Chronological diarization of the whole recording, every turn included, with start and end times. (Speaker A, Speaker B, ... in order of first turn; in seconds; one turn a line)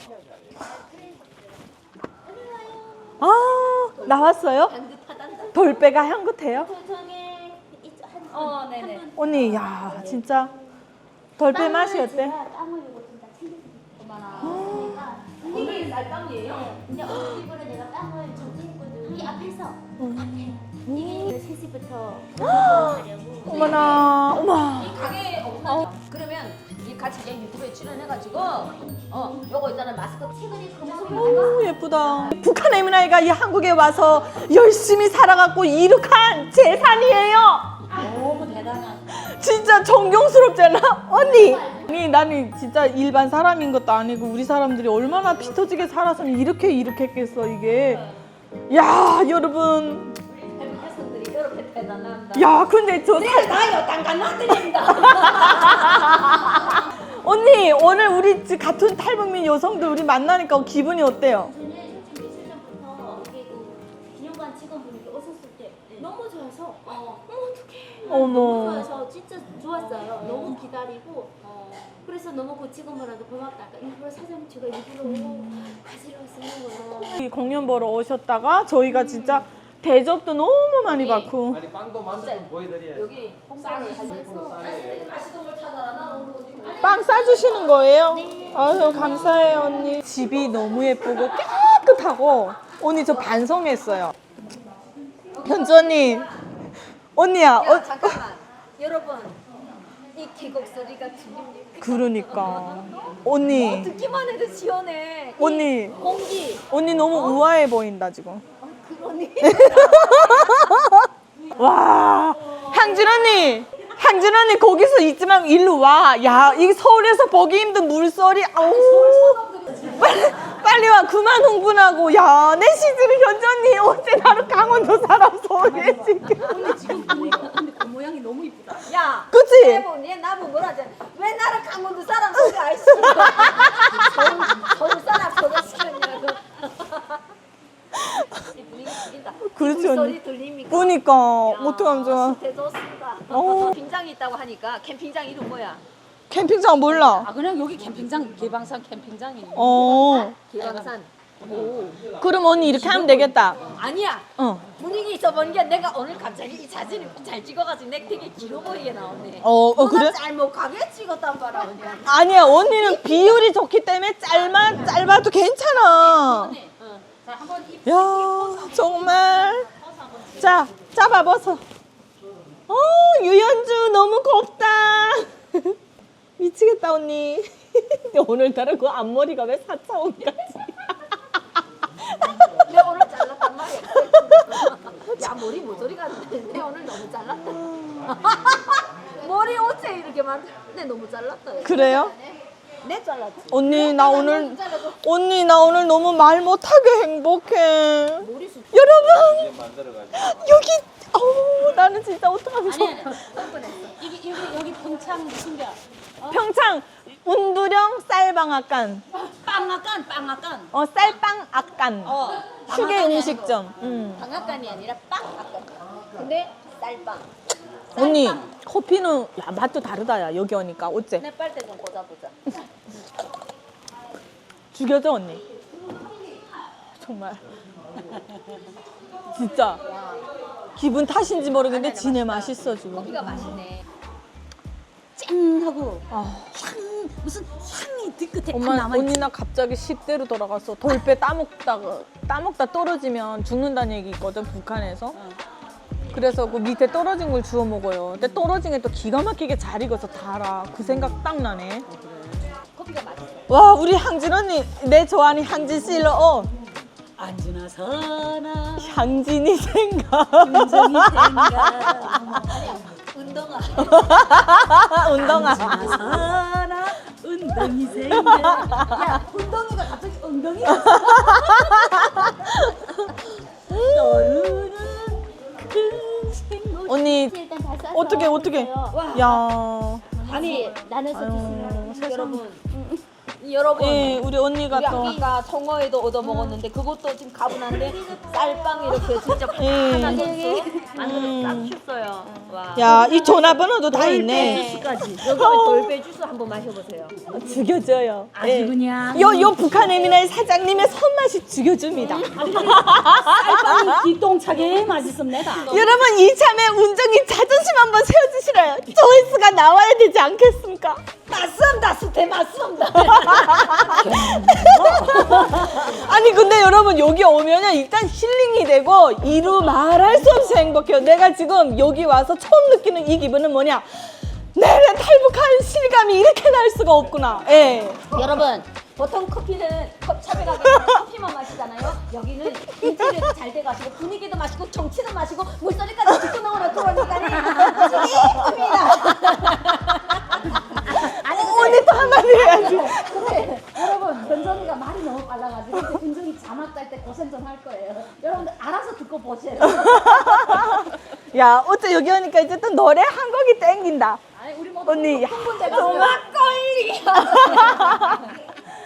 Speaker A: 2.3-3.4
Speaker B: 3.2-4.7
Speaker C: 3.9-5.8
Speaker B: 5.5-6.7
Speaker A: 6.5-10.5
Speaker C: 8.3-9.1
Speaker B: 9.2-10.5
Speaker B: 11.4-12.4
Speaker A: 11.4-24.4
Speaker B: 14.4-15.1
Speaker C: 15.4-16.7
Speaker B: 17.1-17.4
Speaker B: 20.0-21.3
Speaker B: 22.4-25.0
Speaker C: 23.6-23.9
Speaker C: 24.8-31.6
Speaker A: 30.5-32.0
Speaker B: 31.1-37.8
Speaker D: 37.9-39.0
Speaker B: 39.1-48.0
Speaker A: 41.1-42.0
Speaker B: 48.7-50.1
Speaker C: 50.3-52.5
Speaker B: 52.4-53.6
Speaker C: 53.1-56.4
Speaker B: 55.1-61.5
Speaker A: 61.4-77.2
Speaker B: 68.1-68.9
Speaker C: 69.7-70.6
Speaker C: 71.4-72.0
Speaker B: 75.0-75.8
Speaker B: 77.0-81.6
Speaker C: 80.9-81.4
Speaker E: 81.5-83.1
Speaker C: 82.1-87.8
Speaker A: 83.7-84.3
Speaker E: 83.7-85.1
Speaker B: 86.8-94.1
Speaker A: 88.1-89.4
Speaker C: 95.4-96.3
Speaker B: 95.4-96.3
Speaker B: 97.2-98.2
Speaker C: 97.5-99.4
Speaker C: 100.1-107.4
Speaker B: 101.8-103.9
Speaker B: 105.4-106.0
Speaker B: 106.7-108.4
Speaker C: 108.6-110.8
Speaker B: 109.4-111.0
Speaker B: 111.5-126.8
Speaker C: 118.7-119.6
Speaker D: 119.1-120.2
Speaker D: 125.6-128.9
Speaker C: 128.9-137.2
Speaker B: 129.3-129.8
Speaker B: 137.9-138.4
Speaker C: 138.5-145.8
Speaker B: 139.4-140.2
Speaker B: 140.7-142.4
Speaker B: 143.3-143.8
Speaker B: 146.3-147.3
Speaker D: 147.1-149.8
Speaker B: 149.5-150.4
Speaker C: 149.7-152.1
Speaker D: 150.6-150.9
Speaker B: 152.2-153.6
Speaker D: 152.7-153.5
Speaker C: 152.8-163.4
Speaker B: 154.4-154.7
Speaker B: 159.4-160.2
Speaker B: 162.1-166.6
Speaker C: 164.5-165.0
Speaker D: 166.0-169.6
Speaker C: 166.8-167.1
Speaker B: 167.8-169.7
Speaker B: 170.3-171.6
Speaker B: 172.7-175.8
Speaker B: 176.4-180.9
Speaker B: 182.1-182.5
Speaker C: 182.6-191.9
Speaker B: 191.6-192.1
Speaker A: 191.7-192.4
Speaker C: 192.8-195.0
Speaker B: 193.5-199.5
Speaker C: 198.2-198.7
Speaker E: 198.9-200.6
Speaker B: 200.1-203.2
Speaker D: 202.7-203.2
Speaker C: 203.1-204.4
Speaker D: 204.0-205.8
Speaker B: 206.3-209.0
Speaker C: 209.3-210.7
Speaker D: 209.4-210.7
Speaker B: 210.7-214.2
Speaker C: 212.0-217.3
Speaker B: 217.9-221.2
Speaker C: 218.0-218.4
Speaker C: 221.2-222.4
Speaker B: 224.7-225.4
Speaker B: 227.0-227.4
Speaker B: 229.3-229.8
Speaker C: 229.8-230.3
Speaker B: 230.8-233.5
Speaker C: 231.6-233.8
Speaker C: 235.2-236.0
Speaker D: 235.2-236.0
Speaker B: 236.1-236.6
Speaker D: 236.6-239.2
Speaker B: 238.5-245.2
Speaker B: 246.1-251.9
Speaker C: 252.8-253.5
Speaker B: 253.5-256.5
Speaker D: 257.2-258.9
Speaker B: 258.8-261.4
Speaker D: 260.4-262.5
Speaker C: 261.4-266.5
Speaker B: 263.9-266.3
Speaker D: 265.2-271.6
Speaker B: 268.1-268.8
Speaker C: 268.7-270.2
Speaker C: 270.8-272.1
Speaker B: 272.0-272.8
Speaker B: 273.7-274.5
Speaker C: 273.7-276.5
Speaker D: 273.9-275.0
Speaker A: 276.6-279.0
Speaker B: 276.9-277.4
Speaker B: 277.9-280.1
Speaker C: 278.9-279.5
Speaker C: 280.2-280.9
Speaker A: 280.3-283.1
Speaker B: 281.1-282.4
Speaker C: 281.8-282.7
Speaker C: 283.4-297.2
Speaker B: 283.8-285.2
Speaker A: 287.9-289.0
Speaker B: 289.5-290.4
Speaker A: 289.9-291.0
Speaker B: 291.0-291.7
Speaker B: 292.8-295.9
Speaker D: 294.4-295.2
Speaker A: 294.6-294.9
Speaker B: 297.3-303.9
Speaker D: 298.3-299.6
Speaker C: 302.0-302.5
Speaker D: 302.3-305.7
Speaker C: 305.6-306.0
Speaker B: 305.6-311.0
Speaker C: 311.3-316.0
Speaker B: 313.2-328.0
Speaker D: 314.1-315.4
Speaker C: 328.1-350.8
Speaker B: 338.0-338.5
Speaker B: 340.9-343.2
Speaker D: 344.8-345.4
Speaker D: 346.0-346.9
Speaker B: 349.6-354.2
Speaker C: 354.4-358.5
Speaker D: 354.4-355.0
Speaker B: 354.9-356.2
Speaker B: 357.2-358.2